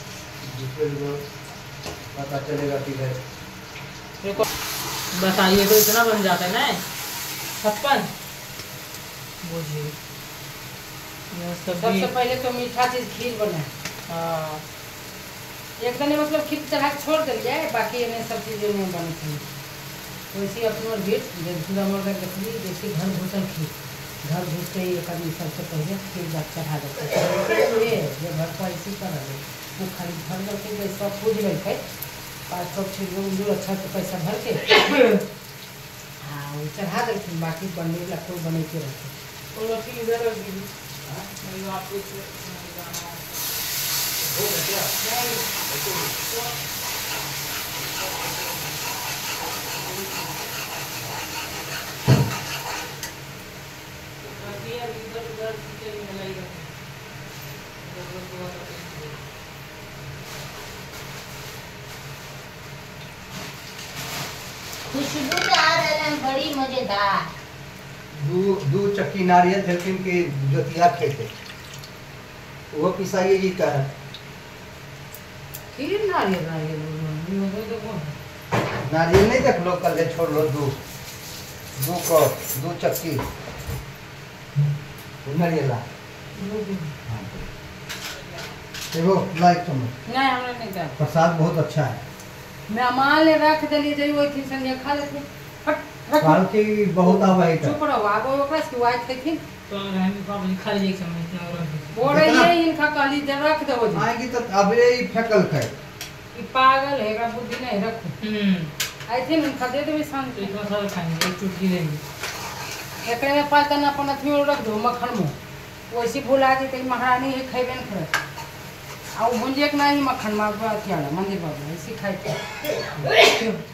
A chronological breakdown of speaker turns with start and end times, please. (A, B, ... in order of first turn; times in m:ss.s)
0:00.4-0:01.2 A
0:02.1-0:03.2 A
0:05.1-0:06.8 B
0:07.6-0:08.1 B
0:09.4-0:09.9 B
0:11.3-0:12.1 B
0:11.8-0:13.7 C
0:14.1-0:14.6 B
0:15.8-0:19.4 C
0:20.3-0:31.8 C
0:32.5-0:34.8 C
0:34.8-0:35.2 B
0:36.2-0:39.1 C
0:39.5-0:40.7 B
0:41.0-0:41.3 A
0:41.4-0:43.4 B
0:44.2-0:44.9 A
0:45.0-0:45.4 C
0:45.7-0:46.1 A
0:54.2-0:56.7 B
0:57.8-0:59.2 B
1:04.9-1:07.3 D
1:08.1-1:11.3 A
1:12.7-1:13.9 A
1:15.7-1:18.1 C
1:18.8-1:20.8 A
1:21.8-1:23.3 A
1:25.2-1:25.8 A
1:26.3-1:26.9 C
1:27.0-1:27.5 A
1:28.9-1:29.9 A
1:30.0-1:31.0 C
1:31.0-1:32.0 A
1:32.7-1:36.4 C
1:36.2-1:37.8 A
1:37.0-1:39.4 C
1:39.7-1:41.9 B
1:41.9-1:44.1 C
1:42.0-1:42.5 A
1:43.9-1:45.7 A
1:46.3-1:48.2 C
1:48.2-1:48.7 B
1:49.1-1:50.7 C
1:50.3-1:52.0 B
1:53.0-1:55.3 C
1:55.9-1:58.1 C
1:59.1-2:02.4 C
2:03.0-2:03.6 B